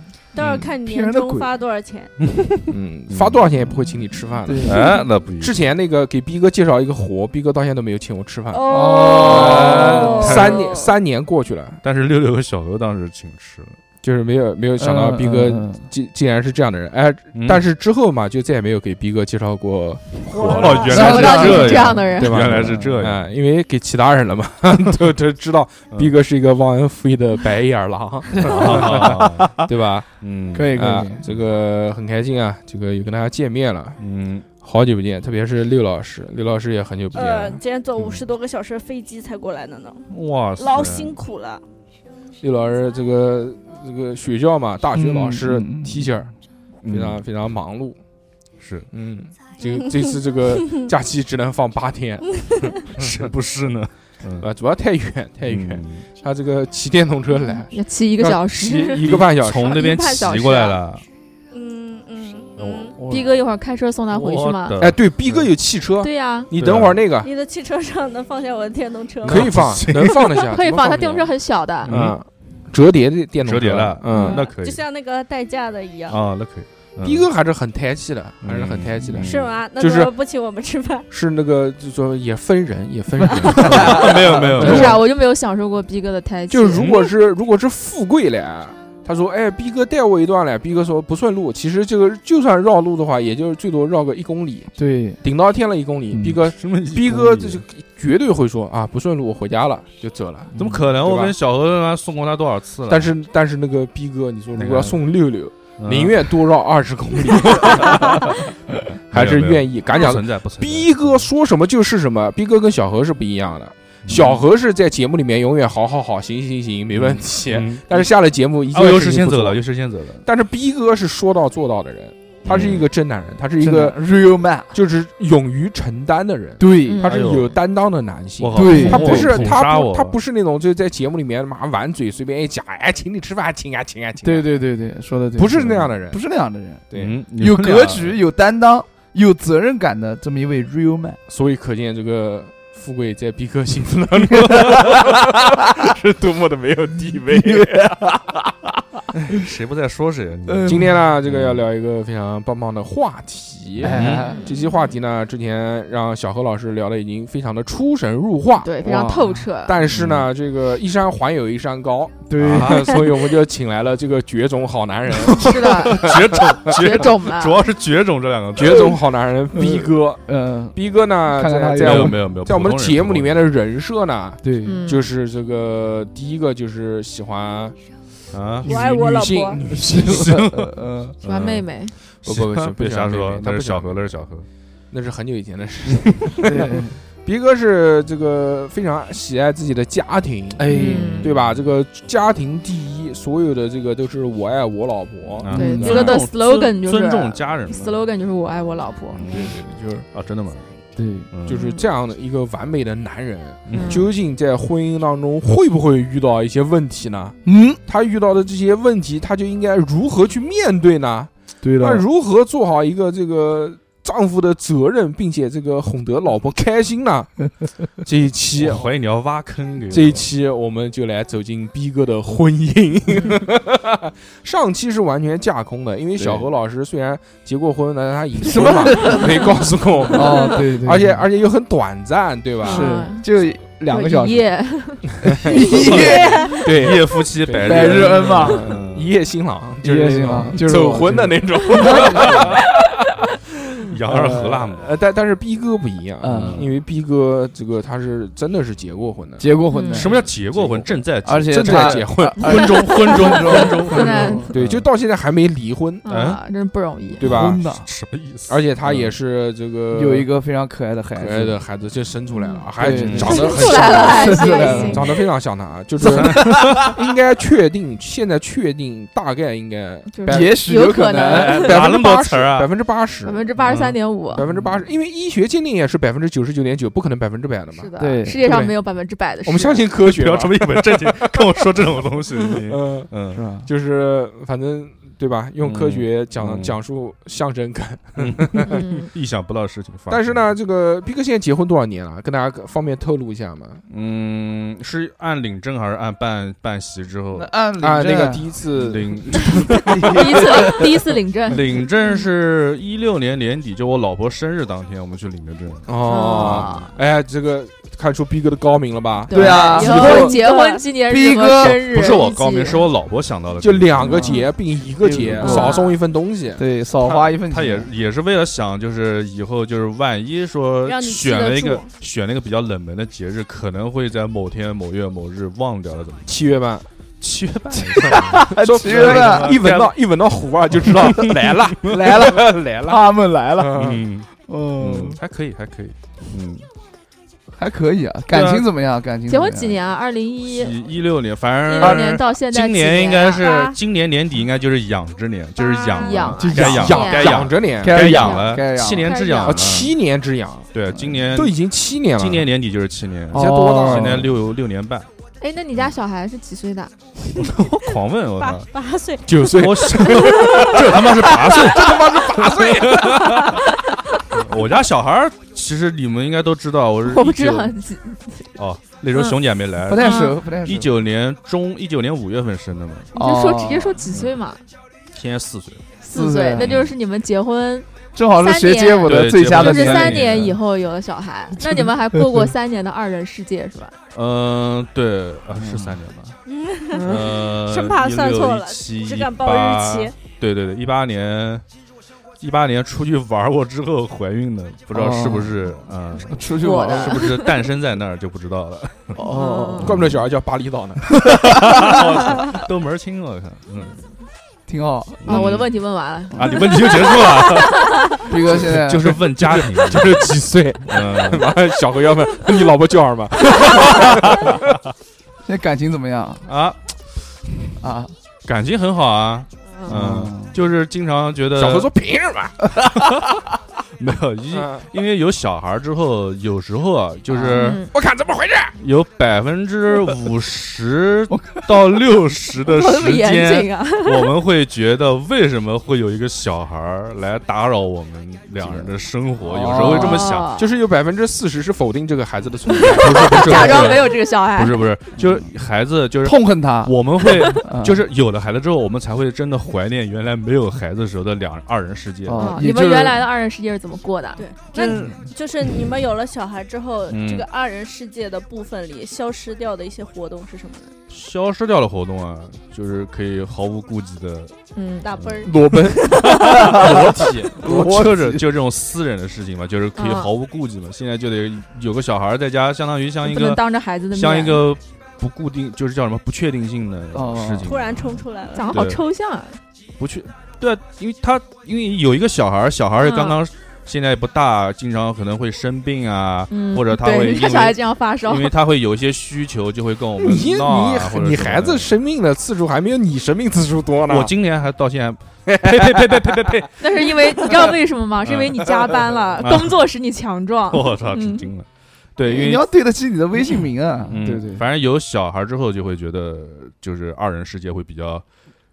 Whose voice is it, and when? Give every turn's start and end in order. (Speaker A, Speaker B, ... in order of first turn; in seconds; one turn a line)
Speaker A: 0.3-2.1
Speaker B: 0.4-0.8
Speaker C: 0.8-1.5
Speaker B: 2.2-3.4
Speaker D: 2.7-8.7
Speaker C: 4.5-4.9
Speaker B: 4.6-5.6
Speaker A: 8.5-10.9
Speaker C: 8.6-10.3
Speaker B: 9.2-10.7
Speaker D: 9.2-11.8
Speaker B: 11.8-13.8
Speaker D: 14.0-30.1
Speaker C: 14.8-15.9
Speaker B: 17.3-17.7
Speaker A: 20.3-21.5
Speaker B: 20.3-23.3
Speaker C: 20.9-23.0
Speaker E: 20.9-22.5
Speaker B: 28.4-29.7
Speaker C: 28.5-29.7
Speaker B: 30.2-30.8
Speaker C: 30.5-31.2
Speaker D: 30.7-34.0
Speaker B: 34.0-34.5
Speaker D: 34.6-37.6
Speaker A: 37.1-41.6
Speaker B: 38.0-38.2
Speaker B: 40.1-41.2
Speaker D: 42.4-46.3
Speaker C: 44.9-46.1
Speaker B: 46.8-47.2
Speaker D: 46.9-48.0
Speaker B: 48.6-48.9
Speaker D: 48.9-53.3
Speaker B: 52.9-54.5
Speaker D: 54.4-59.9
Speaker B: 55.5-56.1
Speaker E: 57.5-59.0
Speaker B: 59.0-61.0
Speaker E: 59.8-60.8
Speaker A: 59.8-60.4
Speaker A: 61.5-63.0
Speaker B: 62.6-63.3
Speaker E: 63.1-64.8
Speaker B: 64.1-65.5
Speaker D: 64.8-67.3
Speaker E: 66.0-66.5
Speaker B: 66.5-67.0
Speaker A: 67.2-69.6
Speaker D: 69.2-71.3
Speaker B: 69.2-70.3
Speaker E: 70.3-72.0
Speaker B: 71.8-72.2
Speaker D: 71.9-74.4
Speaker B: 73.4-74.8
Speaker A: 74.1-76.2
Speaker B: 76.1-77.3
Speaker D: 77.0-80.1
Speaker B: 78.4-79.5
Speaker A: 79.2-81.1
Speaker D: 81.1-85.0
Speaker B: 83.4-85.0
Speaker E: 84.6-87.0
Speaker C: 84.6-84.9
Speaker D: 86.5-101.3
Speaker B: 86.8-87.1
Speaker C: 94.8-95.2
Speaker C: 96.1-96.4
Speaker B: 96.5-97.7
Speaker C: 100.5-100.8
Speaker B: 100.6-103.1
Speaker D: 102.9-119.6
Speaker B: 104.5-105.0
Speaker B: 105.8-106.3
Speaker B: 107.3-108.3
Speaker B: 109.1-111.3
Speaker B: 114.0-114.4
Speaker B: 116.9-118.1
Speaker B: 118.7-120.3
Speaker D: 120.2-124.0
Speaker B: 122.4-122.9
Speaker C: 123.6-124.8
Speaker D: 124.7-134.5
Speaker C: 126.6-127.1
Speaker E: 126.8-127.2
Speaker B: 127.1-127.6
Speaker B: 128.4-130.2
Speaker C: 128.5-129.6
Speaker E: 128.7-129.2
Speaker C: 134.2-141.2
Speaker D: 135.4-136.2
Speaker D: 136.9-137.2
Speaker B: 137.0-138.2
Speaker D: 141.3-147.9
Speaker C: 144.3-145.2
Speaker B: 144.4-144.8
Speaker C: 147.1-148.5
Speaker B: 149.3-151.7
Speaker C: 150.5-151.0
Speaker D: 150.7-159.0
Speaker C: 153.8-154.4
Speaker B: 153.9-154.3
Speaker E: 158.6-159.8
Speaker C: 158.8-159.5
Speaker D: 159.7-166.9
Speaker B: 159.9-160.3
Speaker C: 162.3-163.1
Speaker B: 162.4-162.9
Speaker B: 165.2-169.0
Speaker E: 165.3-167.7
Speaker D: 168.6-177.8
Speaker C: 169.5-172.2
Speaker B: 171.8-173.4
Speaker C: 174.4-174.8
Speaker E: 174.6-175.1
Speaker B: 178.3-178.8
Speaker A: 178.7-179.6
Speaker D: 178.7-180.3
Speaker C: 179.7-181.2
Speaker B: 179.7-181.7
Speaker E: 181.2-181.9
Speaker B: 182.2-184.5
Speaker D: 182.2-184.1
Speaker D: 184.9-196.2
Speaker C: 186.4-186.9
Speaker C: 190.6-191.3
Speaker E: 190.7-191.3
Speaker B: 191.2-191.7
Speaker B: 195.4-197.9
Speaker E: 195.5-199.2
Speaker C: 195.5-196.0
Speaker B: 199.1-201.7
Speaker D: 199.3-200.1
Speaker C: 201.0-201.3
Speaker D: 201.5-217.4
Speaker E: 201.5-201.8
Speaker B: 203.7-204.1
Speaker E: 203.7-204.1
Speaker C: 207.4-207.8
Speaker C: 211.6-212.1
Speaker D: 218.0-218.9
Speaker B: 218.6-220.3
Speaker D: 219.9-232.9
Speaker E: 223.1-223.4
Speaker C: 226.2-226.5
Speaker C: 228.4-229.4
Speaker E: 228.5-229.5
Speaker C: 230.1-231.2
Speaker C: 232.6-234.5
Speaker E: 232.6-233.2
Speaker E: 233.9-236.6
Speaker C: 235.2-236.5
Speaker D: 235.2-236.0
Speaker B: 235.7-239.1
Speaker A: 235.9-236.5
Speaker D: 236.6-243.2
Speaker C: 237.6-238.8
Speaker C: 239.8-242.5
Speaker B: 242.2-242.6
Speaker B: 243.9-244.9
Speaker C: 244.1-244.7
Speaker D: 244.3-249.5
Speaker C: 246.2-246.7
Speaker B: 246.3-246.7
Speaker C: 249.4-250.3
Speaker E: 249.7-250.1
Speaker B: 249.9-254.9
Speaker D: 250.0-253.7
Speaker C: 251.2-254.6
Speaker E: 252.9-254.5
Speaker D: 254.5-256.1
Speaker E: 256.1-257.2
Speaker B: 256.1-256.4
Speaker D: 257.2-257.6
Speaker C: 257.2-257.9
Speaker B: 257.3-259.1
Speaker D: 258.5-260.3
Speaker C: 259.9-261.6
Speaker D: 261.2-273.6
Speaker E: 262.4-262.7
Speaker C: 262.8-265.2
Speaker B: 262.8-263.7
Speaker E: 263.2-265.2
Speaker B: 264.8-265.2
Speaker C: 266.0-266.9
Speaker B: 266.0-266.9
Speaker E: 270.1-271.8
Speaker C: 270.3-271.7
Speaker B: 271.2-272.7
Speaker E: 273.2-274.4
Speaker B: 273.6-274.0
Speaker D: 274.3-278.8
Speaker C: 274.4-274.8
Speaker E: 277.7-279.9
Speaker C: 278.0-278.6
Speaker D: 279.4-288.8
Speaker B: 280.0-283.5
Speaker C: 283.3-283.7
Speaker B: 285.6-286.8
Speaker B: 288.2-290.4
Speaker E: 288.7-289.1
Speaker D: 290.1-293.8
Speaker B: 293.9-297.6
Speaker C: 297.3-298.6
Speaker D: 297.8-300.7
Speaker B: 298.7-300.7
Speaker C: 299.9-300.6
Speaker E: 300.0-302.2
Speaker B: 301.5-306.9
Speaker D: 305.9-310.4
Speaker E: 306.1-306.9
Speaker E: 309.3-312.9
Speaker C: 309.3-310.4
Speaker A: 309.7-310.8
Speaker C: 311.1-312.0
Speaker B: 311.6-314.3
Speaker D: 313.6-316.6
Speaker C: 314.0-315.9
Speaker E: 315.4-316.0
Speaker C: 316.6-317.9
Speaker B: 317.0-326.4
Speaker A: 320.9-321.9
Speaker D: 326.3-326.9
Speaker B: 327.2-329.9
Speaker C: 327.7-329.6
Speaker D: 328.0-333.0
Speaker B: 330.9-331.9
Speaker C: 331.9-335.2
Speaker D: 333.6-334.0
Speaker B: 333.8-334.3
Speaker B: 334.8-336.7
Speaker C: 337.5-339.8
Speaker B: 338.3-338.7
Speaker E: 339.3-340.8
Speaker B: 340.5-349.9
Speaker E: 341.6-343.5
Speaker A: 343.4-343.8
Speaker A: 345.6-346.4
Speaker E: 345.9-347.4
Speaker C: 346.4-347.0
Speaker D: 346.5-348.1
Speaker C: 347.8-349.1
Speaker E: 348.1-349.8
Speaker D: 349.4-350.7
Speaker B: 350.7-351.6
Speaker D: 351.3-352.5
Speaker B: 352.2-355.1
Speaker D: 353.3-354.3
Speaker C: 353.3-354.4
Speaker E: 355.4-356.9
Speaker B: 357.4-358.7
Speaker A: 358.4-360.8
Speaker D: 359.3-363.6
Speaker B: 359.5-363.7
Speaker B: 364.3-367.7
Speaker E: 367.0-368.5
Speaker B: 368.6-373.1
Speaker C: 369.8-370.9
Speaker E: 370.0-370.4
Speaker C: 373.1-374.0
Speaker E: 373.1-374.6
Speaker B: 374.1-374.3
Speaker B: 375.1-375.9
Speaker E: 376.0-383.9
Speaker C: 376.1-376.7
Speaker B: 376.6-376.9
Speaker C: 378.1-380.6
Speaker B: 379.1-380.6
Speaker C: 381.6-382.5
Speaker B: 384.1-386.4
Speaker C: 385.6-386.0
Speaker A: 386.5-390.1
Speaker E: 386.9-387.3
Speaker B: 387.0-391.6
Speaker B: 392.4-399.2
Speaker C: 394.9-395.7
Speaker C: 396.3-397.3
Speaker E: 396.6-397.5
Speaker C: 399.1-400.1
Speaker E: 399.3-399.9
Speaker D: 399.8-401.2
Speaker B: 399.9-400.1
Speaker C: 401.2-402.0
Speaker B: 401.2-404.0
Speaker C: 404.7-405.4
Speaker B: 405.2-405.7
Speaker E: 405.3-407.8
Speaker B: 406.3-410.4
Speaker C: 406.4-406.6
Speaker C: 408.2-409.2
Speaker D: 408.5-414.6
Speaker B: 410.9-411.6
Speaker B: 413.8-414.6
Speaker C: 415.4-416.4
Speaker B: 416.5-416.8
Speaker C: 417.8-418.1
Speaker B: 418.4-421.9
Speaker C: 419.9-420.6
Speaker D: 421.6-422.7
Speaker C: 422.8-423.3
Speaker B: 424.0-427.9
Speaker D: 424.5-424.9
Speaker C: 427.3-427.8
Speaker E: 427.5-427.9
Speaker D: 427.9-428.8
Speaker B: 428.8-440.6
Speaker C: 431.3-431.8
Speaker E: 432.7-434.3
Speaker C: 438.6-438.9
Speaker C: 439.4-440.3
Speaker E: 439.8-440.7
Speaker D: 440.6-444.1
Speaker E: 442.7-444.8
Speaker B: 442.9-452.6
Speaker C: 445.2-445.5
Speaker C: 446.2-447.0
Speaker C: 447.6-448.0
Speaker C: 452.2-453.2
Speaker E: 452.4-454.8
Speaker A: 454.4-460.9
Speaker C: 454.8-455.3
Speaker B: 457.1-457.5
Speaker B: 461.1-464.6
Speaker E: 464.8-465.1
Speaker A: 465.0-466.7
Speaker B: 465.2-465.5
Speaker D: 465.4-467.9
Speaker B: 466.1-479.0
Speaker C: 466.7-468.4
Speaker E: 470.0-470.3
Speaker E: 473.2-474.6
Speaker C: 477.1-477.8
Speaker A: 477.6-478.8
Speaker E: 478.6-479.6
Speaker B: 480.0-492.0
Speaker E: 483.0-483.4
Speaker E: 486.5-488.6
Speaker D: 490.2-494.4
Speaker B: 494.1-499.8
Speaker D: 495.5-497.7
Speaker E: 496.8-501.5
Speaker B: 500.7-502.7
Speaker C: 502.2-504.6
Speaker B: 504.1-508.2